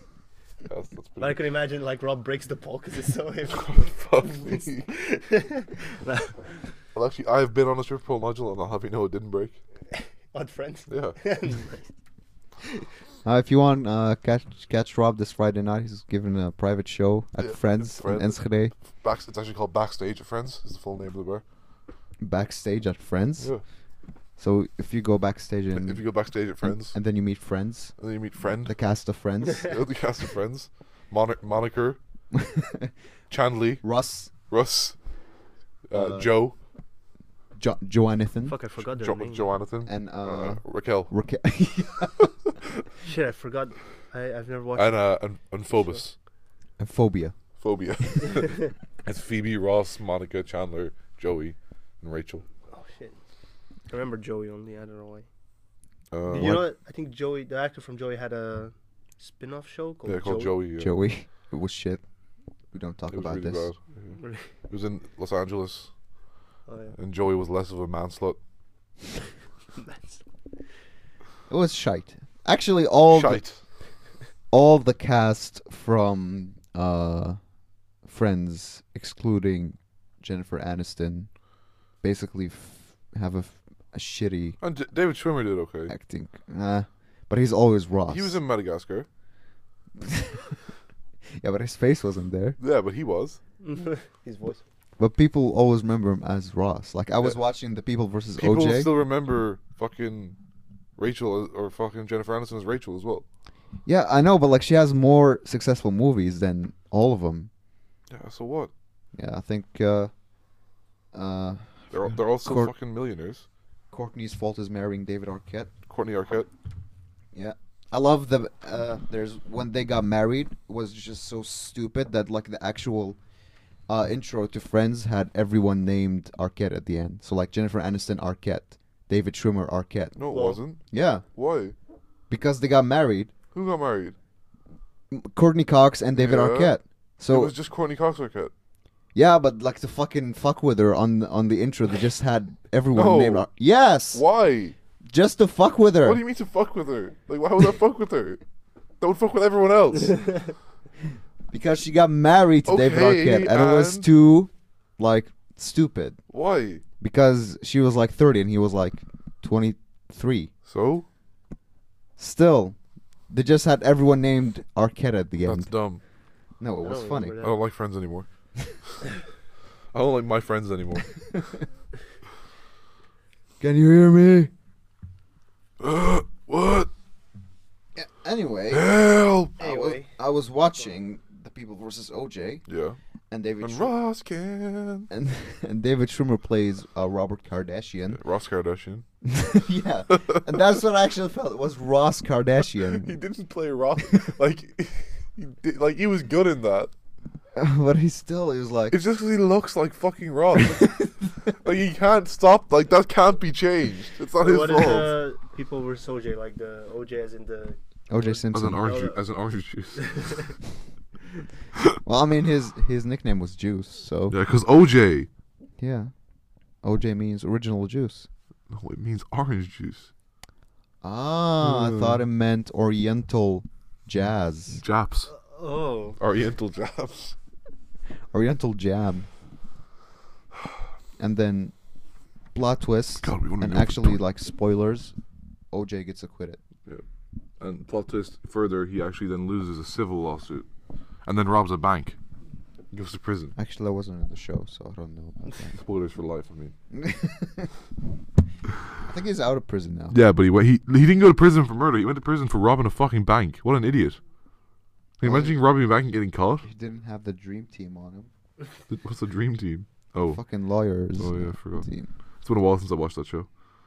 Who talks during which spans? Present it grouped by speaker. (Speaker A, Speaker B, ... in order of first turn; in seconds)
Speaker A: 0.7-1.4, 3.5-4.9, 6.9-9.6, 10.9-11.2, 17.4-21.4, 25.7-27.0, 28.0-28.8, 29.6-32.0, 33.3-35.0, 35.9-36.5, 38.9-41.1, 44.8-46.1, 47.6-52.5, 56.1-56.6, 60.0-61.0, 63.1-65.9, 67.0-68.4, 73.1-73.6, 84.6-85.9, 88.1-89.1, 92.6-93.4, 98.4-100.4, 101.0-103.2, 108.1-108.7, 111.9-113.5, 115.9-116.5, 130.2-131.8, 133.5-134.2, 136.2-138.5, 142.9-143.5, 144.1-144.8, 146.0-148.4, 149.0-150.5, 152.7-154.1, 156.3-156.8, 160.7-161.1, 165.4-166.0, 167.4-168.3, 169.9-171.2, 175.8-176.9, 178.7-179.6, 182.7-183.0, 183.6-185.1, 188.2-189.1, 190.1-190.4, 193.0-196.9, 198.9-205.1, 208.5-210.5, 214.3-215.3, 218.7-220.1, 221.6-222.2, 224.7-225.3, 226.2-227.3, 233.2-234.2, 237.6-240.7, 241.2-242.2, 242.9-243.6, 245.8-246.7, 250.1-254.2, 255.2-256.7, 258.9-260.4, 261.1-261.9, 262.4-263.5
Speaker B: 1.2-6.7, 10.0-11.9, 38.5-39.5, 43.0-45.1, 52.7-53.2, 53.9-55.3, 56.3-60.6, 64.2-64.5, 66.7-67.0, 69.8-70.2, 93.6-94.6, 130.3-130.6, 166.8-167.6, 179.6-180.1, 204.4-209.2, 210.0-210.5, 225.3-226.2
Speaker C: 13.2-18.7, 22.2-23.5, 24.4-26.1, 26.6-28.0, 28.6-29.7, 32.4-32.9, 33.8-34.3, 35.9-36.3, 37.6-38.6, 39.9-42.3, 46.8-47.4, 56.3-56.6, 60.8-62.0, 62.7-63.7, 71.5-73.4, 74.5-77.4, 78.0-81.3, 82.0-84.6, 85.9-88.4, 90.0-90.5, 91.4-92.6, 95.0-98.9, 103.8-107.5, 109.1-110.1, 111.1-112.7, 113.9-115.7, 117.3-123.2, 123.9-130.2, 130.9-131.2, 132.3-133.3, 135.1-137.5, 139.1-144.2, 145.1-146.2, 151.5-156.2, 157.0-160.5, 162.2-162.8, 163.3-165.7, 166.6-167.4, 173.6-174.5, 177.9-178.9, 179.6-182.6, 183.3-183.9, 185.1-188.2, 189.2-193.1, 197.6-199.0, 208.1-208.9, 212.0-214.4, 215.8-216.1, 216.8-218.3, 221.0-224.8, 228.3-229.3, 231.2-231.7, 232.5-235.1, 235.7-236.6, 243.6-245.8, 246.9-247.7, 249.0-250.2, 255.2-255.6, 256.6-258.3, 260.3-262.1